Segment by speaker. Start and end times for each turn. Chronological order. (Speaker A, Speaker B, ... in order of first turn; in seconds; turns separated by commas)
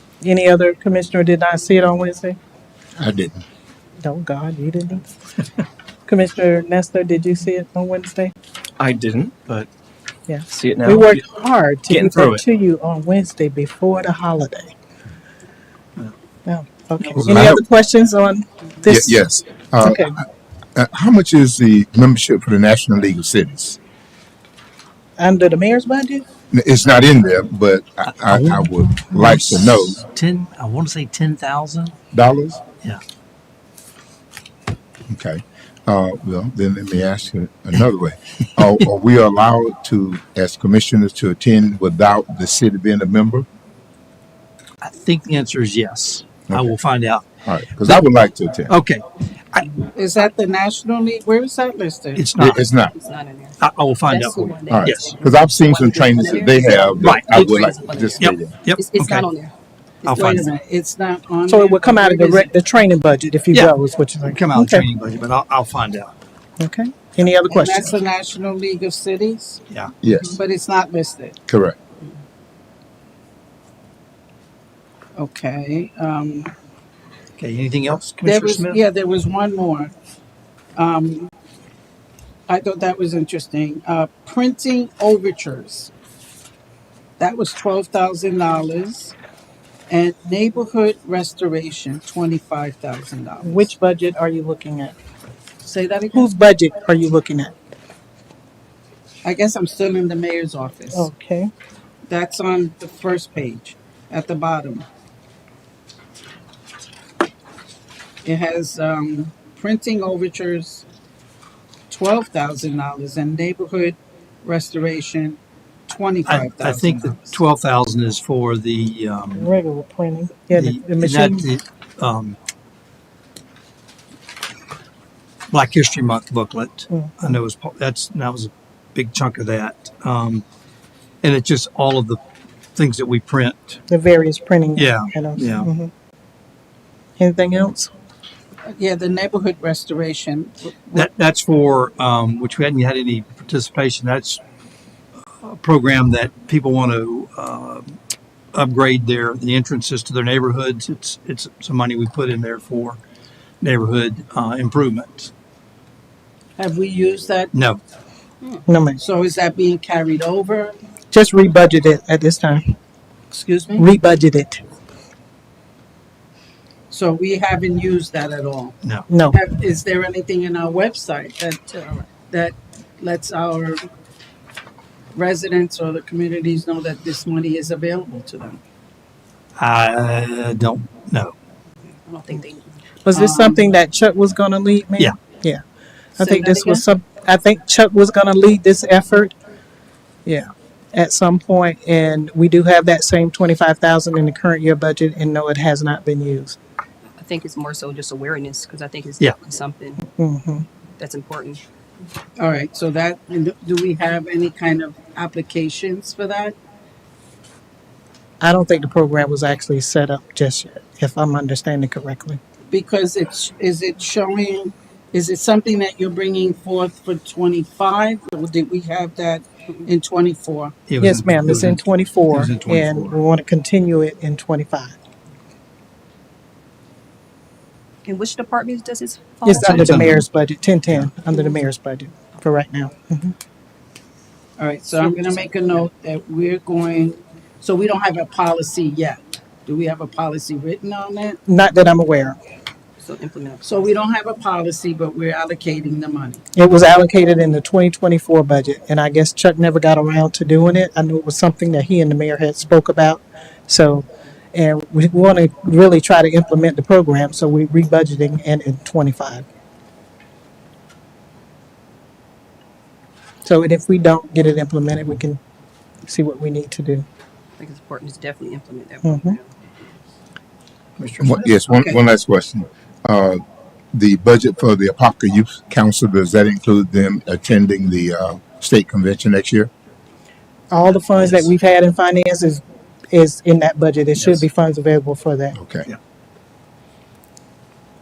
Speaker A: 0.2-2.4, Speaker B: 3.0-3.4, Speaker A: 4.0-5.1, Speaker A: 6.1-8.3, Speaker C: 8.8-9.7, Speaker A: 10.3-14.7, Speaker C: 10.5-11.2, Speaker C: 11.9-12.4, Speaker A: 16.5-19.1, Speaker B: 17.2-17.6, Speaker B: 18.9-20.2, Speaker A: 19.8-20.1, Speaker B: 20.8-23.8, Speaker A: 25.2-26.2, Speaker B: 26.5-30.0, Speaker D: 28.1-32.0, Speaker B: 32.1-32.6, Speaker B: 35.1-43.5, Speaker D: 44.8-47.3, Speaker B: 47.5-48.7, Speaker D: 48.7-49.8, Speaker E: 49.8-52.2, Speaker D: 52.1-52.6, Speaker B: 52.4-52.9, Speaker F: 52.9-59.5, Speaker D: 53.6-55.2, Speaker B: 54.7-58.5, Speaker D: 57.0-57.6, Speaker D: 58.2-59.3, Speaker E: 60.0-62.5, Speaker D: 60.0-60.5, Speaker A: 61.5-64.8, Speaker D: 64.3-66.1, Speaker A: 66.6-68.0, Speaker E: 67.5-69.6, Speaker D: 69.7-69.9, Speaker B: 70.0-70.4, Speaker E: 70.3-71.3, Speaker B: 71.5-71.8, Speaker E: 75.2-76.5, Speaker D: 77.4-78.8, Speaker E: 78.2-79.9, Speaker E: 80.8-81.3, Speaker E: 82.5-85.9, Speaker E: 87.2-89.2, Speaker E: 89.9-93.7, Speaker A: 93.4-94.9, Speaker E: 95.6-96.3, Speaker A: 96.1-97.5, Speaker E: 99.2-101.1, Speaker A: 100.9-101.5, Speaker E: 102.1-104.8, Speaker E: 108.2-110.8, Speaker E: 111.9-117.4, Speaker D: 116.2-119.5, Speaker A: 119.3-121.5, Speaker D: 120.5-122.4, Speaker D: 125.5-130.4, Speaker A: 126.9-127.3, Speaker D: 131.2-132.2, Speaker D: 132.8-133.8, Speaker A: 133.9-135.9, Speaker D: 134.8-135.7, Speaker A: 137.2-137.9, Speaker E: 138.7-141.1, Speaker D: 140.9-144.4, Speaker D: 145.2-148.0, Speaker D: 148.5-153.0, Speaker D: 153.6-155.3, Speaker E: 156.6-157.5, Speaker D: 157.5-157.8, Speaker A: 158.7-159.0, Speaker E: 159.0-160.8, Speaker A: 161.1-162.7, Speaker E: 163.3-163.9, Speaker A: 163.8-164.6, Speaker E: 166.9-168.8, Speaker A: 169.1-169.4, Speaker E: 169.3-173.8, Speaker E: 175.1-178.6, Speaker D: 179.6-181.3, Speaker F: 182.1-182.7, Speaker A: 183.0-185.6, Speaker E: 183.1-183.6, Speaker E: 186.2-186.8, Speaker A: 186.2-189.3, Speaker A: 190.2-196.6, Speaker F: 197.2-200.0, Speaker A: 200.1-200.7, Speaker F: 201.0-201.6, Speaker E: 202.4-206.5, Speaker A: 208.4-212.4, Speaker E: 212.7-220.7, Speaker D: 220.9-223.2, Speaker A: 221.0-224.9, Speaker F: 228.0-229.9, Speaker A: 229.4-233.3, Speaker D: 229.5-230.2, Speaker E: 234.6-241.4, Speaker A: 241.5-242.4, Speaker F: 243.0-243.9, Speaker E: 243.6-246.4, Speaker A: 246.5-259.5, Speaker A: 263.4-265.4, Speaker A: 266.1-267.1, Speaker F: 267.6-269.5, Speaker A: 269.0-269.4, Speaker D: 271.0-271.7, Speaker B: 271.2-273.4, Speaker B: 273.9-279.7, Speaker A: 280.7-285.6, Speaker B: 285.6-285.9